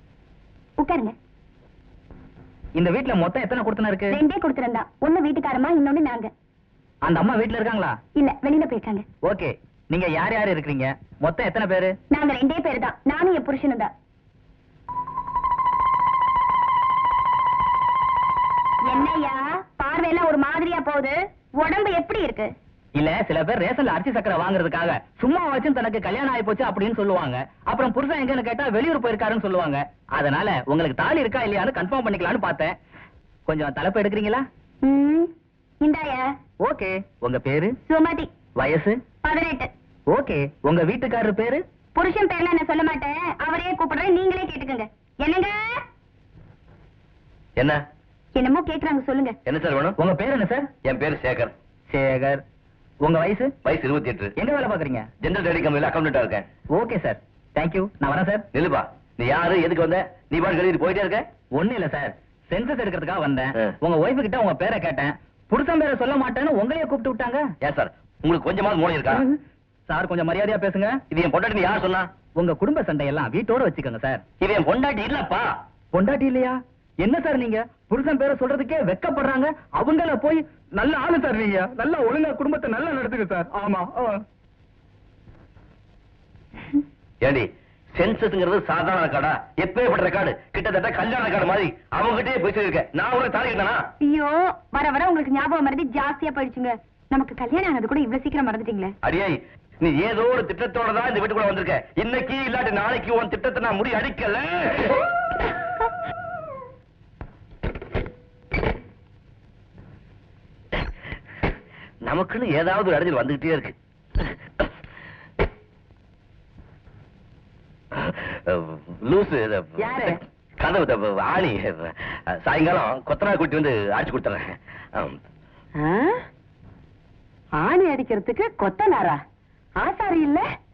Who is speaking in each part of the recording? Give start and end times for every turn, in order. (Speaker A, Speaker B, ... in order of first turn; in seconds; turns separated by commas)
Speaker A: 0.8-1.1, Speaker B: 2.8-4.2, Speaker A: 4.1-6.3, Speaker B: 7.0-8.0, Speaker A: 8.1-9.1, Speaker B: 9.2-11.9, Speaker A: 12.1-13.9, Speaker A: 18.8-22.5, Speaker B: 22.9-32.8, Speaker B: 33.5-34.5, Speaker A: 34.8-36.3, Speaker B: 36.6-37.7, Speaker A: 37.9-38.3, Speaker B: 38.6-39.0, Speaker A: 39.2-39.7, Speaker B: 40.1-41.6, Speaker A: 41.9-45.8, Speaker A: 48.3-49.4, Speaker C: 49.5-50.0, Speaker B: 50.0-50.7, Speaker C: 50.8-51.5, Speaker B: 51.9-52.4, Speaker B: 53.0-53.5, Speaker C: 53.6-54.3, Speaker B: 54.4-55.1, Speaker C: 55.2-56.5, Speaker B: 56.7-58.4, Speaker C: 58.5-61.2, Speaker B: 61.5-67.5, Speaker C: 67.6-69.2, Speaker B: 69.1-69.4, Speaker B: 69.9-71.0, Speaker C: 71.1-72.1, Speaker B: 72.4-74.2, Speaker C: 74.4-75.5, Speaker B: 75.9-84.2, Speaker C: 87.2-93.8, Speaker A: 94.0-98.9, Speaker C: 99.0-105.0, Speaker C: 112.0-114.2, Speaker C: 118.0-125.2, Speaker D: 119.8-120.2, Speaker D: 125.8-126.2, Speaker D: 127.6-129.2, Speaker D: 129.8-130.4